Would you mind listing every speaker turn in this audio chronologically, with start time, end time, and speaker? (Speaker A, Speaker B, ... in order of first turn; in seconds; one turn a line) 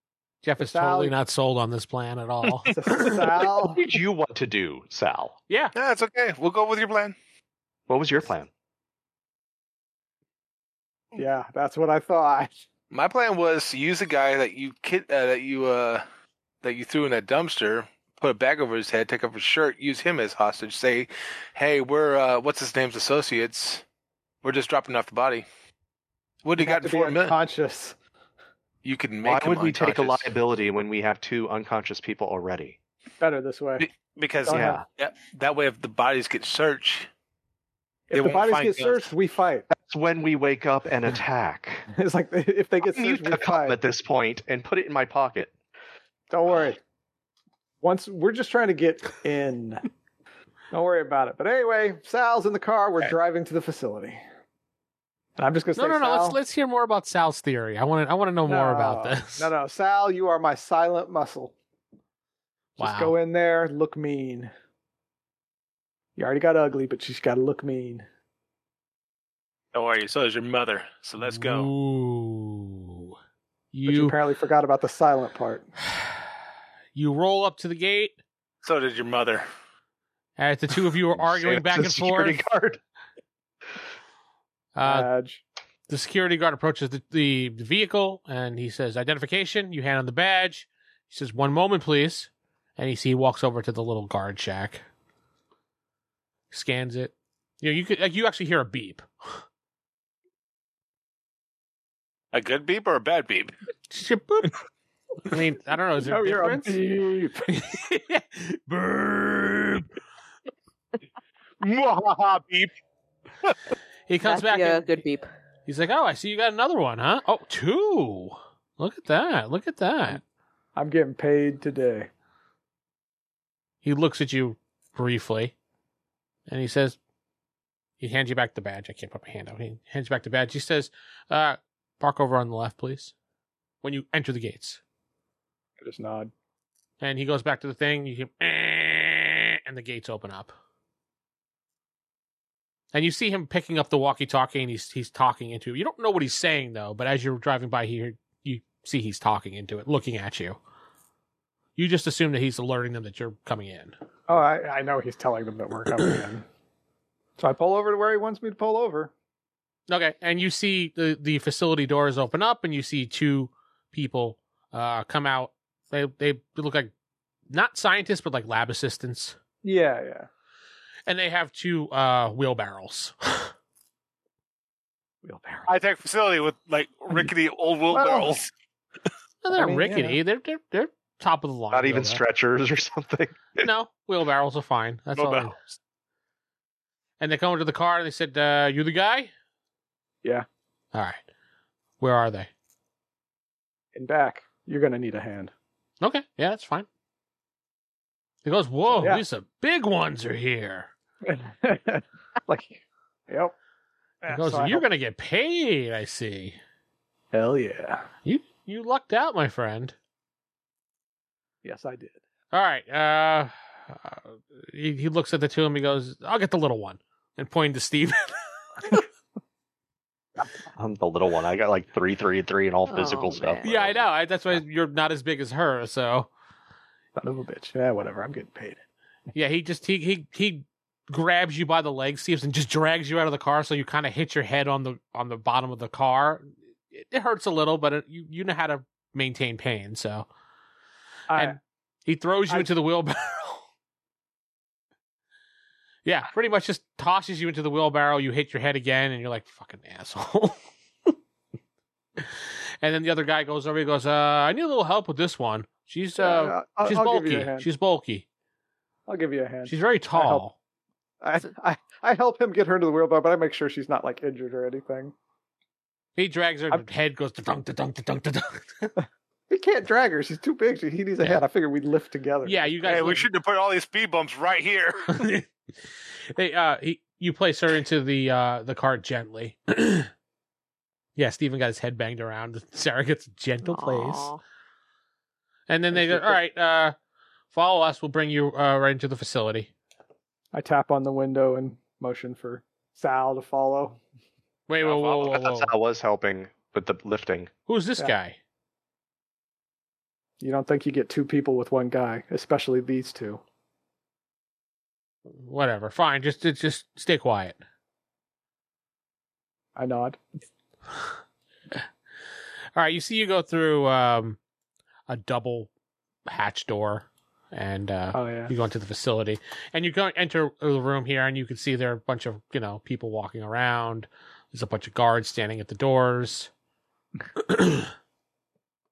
Speaker A: 0.4-3.2
Speaker B: 0.6-1.1
Speaker B: 2.7-3.9
Speaker C: 3.7-5.3
Speaker D: 5.7-7.1
Speaker C: 7.9-8.5
Speaker B: 11.1-12.6
Speaker D: 12.9-16.0
Speaker D: 16.6-23.8
Speaker D: 24.4-25.4
Speaker D: 26.4-27.4
Speaker B: 26.6-27.9
Speaker D: 28.8-30.3
Speaker C: 29.2-32.8
Speaker B: 33.2-33.9
Speaker D: 33.8-37.1
Speaker B: 34.4-34.8
Speaker C: 34.5-34.8
Speaker B: 38.1-39.6
Speaker D: 38.1-39.1
Speaker C: 39.7-41.9
Speaker B: 41.9-43.8
Speaker C: 42.9-45.5
Speaker B: 46.3-46.8
Speaker B: 47.8-49.9
Speaker B: 50.7-54.2
Speaker B: 55.4-56.4
Speaker A: 55.8-59.5
Speaker B: 58.5-61.5
Speaker B: 62.8-64.5
Speaker A: 62.8-63.1
Speaker B: 66.2-68.0
Speaker D: 69.7-71.7
Speaker A: 71.2-73.1
Speaker A: 73.7-74.2
Speaker B: 73.9-75.7
Speaker A: 76.9-78.2
Speaker D: 78.6-79.4
Speaker A: 80.4-82.4
Speaker C: 81.2-82.8
Speaker A: 84.7-85.1
Speaker B: 84.8-85.4
Speaker A: 85.9-94.8
Speaker A: 96.5-99.4
Speaker D: 102.3-103.5
Speaker A: 103.9-104.5
Speaker A: 105.2-106.8
Speaker B: 106.0-107.5
Speaker A: 107.5-109.9
Speaker D: 111.6-112.7
Speaker A: 114.1-114.9
Speaker E: 114.2-115.3
Speaker A: 115.7-120.2
Speaker B: 120.8-122.1
Speaker A: 123.8-125.5
Speaker A: 126.5-127.0
Speaker A: 128.0-133.1
Speaker A: 133.8-134.8
Speaker B: 135.8-136.3
Speaker A: 137.0-140.5
Speaker A: 142.9-150.6
Speaker A: 151.8-153.9
Speaker B: 154.3-156.4
Speaker B: 157.4-159.1
Speaker A: 159.9-166.9
Speaker A: 167.5-169.3
Speaker B: 169.6-170.3
Speaker A: 171.1-173.5
Speaker B: 175.2-175.7
Speaker D: 175.7-178.5
Speaker B: 177.9-178.4
Speaker A: 179.4-182.2
Speaker B: 179.5-180.2
Speaker C: 181.7-183.7
Speaker A: 183.6-185.6
Speaker D: 185.2-185.6
Speaker A: 187.2-189.3
Speaker A: 190.9-191.2
Speaker A: 192.0-192.5
Speaker B: 193.9-195.5
Speaker A: 196.0-196.9
Speaker A: 198.4-200.9
Speaker B: 198.9-199.2
Speaker B: 201.2-203.5
Speaker B: 204.2-204.8
Speaker A: 204.3-206.6
Speaker B: 207.3-208.1
Speaker A: 208.2-209.9
Speaker B: 211.6-212.2
Speaker A: 212.5-219.0
Speaker C: 220.7-223.9
Speaker E: 222.9-223.9
Speaker A: 223.6-226.3
Speaker B: 227.2-228.8
Speaker A: 229.3-240.3
Speaker B: 241.3-241.6
Speaker A: 241.3-243.6
Speaker A: 246.0-250.6
Speaker A: 252.8-258.2
Speaker B: 256.2-257.7
Speaker B: 259.1-260.4
Speaker A: 259.6-260.5
Speaker B: 261.2-265.1
Speaker A: 266.1-268.9
Speaker B: 269.5-273.2
Speaker A: 272.4-273.3
Speaker D: 272.9-275.2
Speaker A: 275.1-275.5
Speaker A: 276.3-280.1
Speaker A: 281.1-284.3
Speaker E: 283.6-284.4
Speaker A: 285.7-286.9
Speaker B: 285.9-286.4
Speaker A: 287.5-289.7
Speaker B: 290.5-294.0
Speaker A: 294.7-295.7
Speaker D: 294.9-295.2
Speaker C: 294.9-297.5
Speaker A: 297.7-298.4
Speaker B: 300.4-303.4
Speaker A: 305.3-307.6
Speaker B: 309.8-310.2
Speaker A: 312.7-314.4
Speaker A: 315.1-315.7
Speaker A: 316.2-326.5
Speaker B: 318.1-318.5
Speaker A: 327.4-327.9